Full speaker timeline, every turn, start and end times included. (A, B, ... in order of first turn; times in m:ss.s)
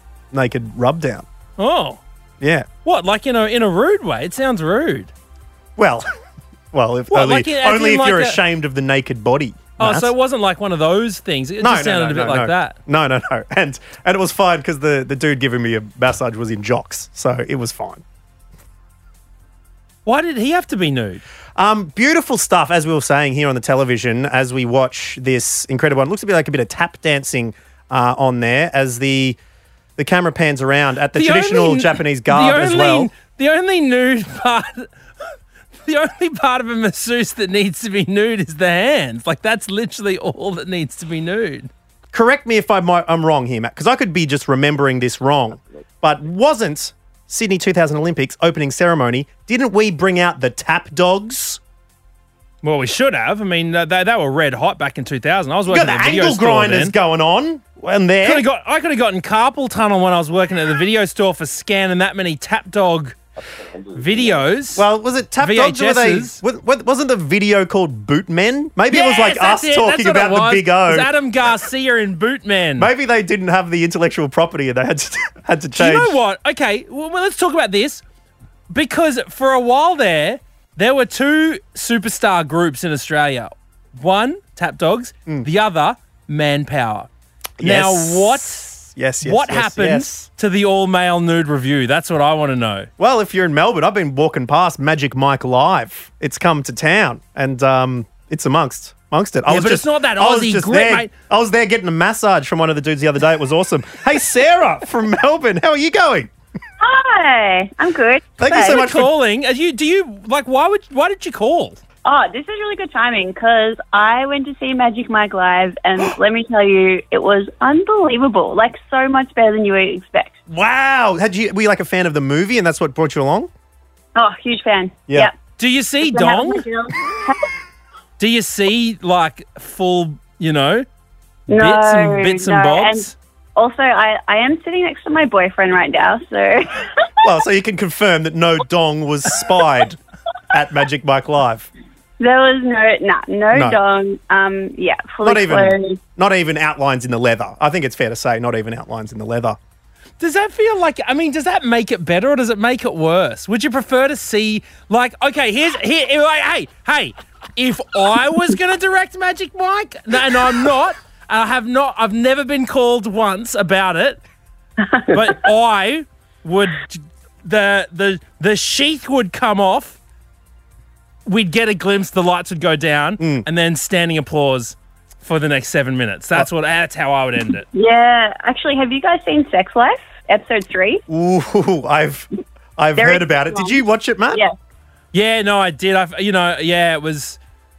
0:00.3-0:01.2 A
0:01.6-0:02.0 B
0:02.4-0:02.7 A
0:02.8-0:05.1 B
0:05.8-0:06.0 A
0:06.7-0:10.1 A
0:07.1-0:08.4 B
0:09.8-0:12.8 B
0:11.6-0:18.0 A
0:20.0-0:21.2 B
0:21.6-0:29.4 A
0:30.0-0:33.1 A
0:31.1-0:34.9 B
0:35.8-0:41.7 B
0:42.1-0:51.6 A
0:52.6-0:56.9 B
0:55.7-0:58.4 A
0:58.2-1:03.2 B
1:03.9-1:04.8 B
1:04.7-1:11.1 A
1:05.4-1:06.4 B
1:08.9-1:12.9 B
1:12.8-1:16.2 A
1:15.8-1:18.0 B
1:18.7-1:27.1 B
1:27.6-1:30.3 A
1:27.6-1:32.9 B
1:33.0-1:46.3 A
1:39.5-1:41.1 B
1:46.8-1:48.8 C
1:48.4-1:49.1 A
1:48.5-1:51.8 B
1:52.0-2:00.3 C
2:00.5-2:03.5 A
2:04.1-2:05.3 C
2:05.6-2:06.6 B
2:06.0-2:07.5 C
2:08.2-2:10.8 B
2:11.5-2:16.8 C
2:11.5-2:13.1 B
2:17.2-2:20.0 A
2:20.5-2:21.7 A
2:22.2-2:26.0 C
2:23.5-2:23.8 A
2:25.2-2:29.6 A
2:30.2-2:44.2 B
2:45.1-2:50.0 B
2:51.2-2:57.7 B
2:53.2-2:53.4 A
2:57.7-3:01.0 C
3:01.1-3:04.4 A
3:03.0-3:03.8 C
3:05.1-3:07.4 B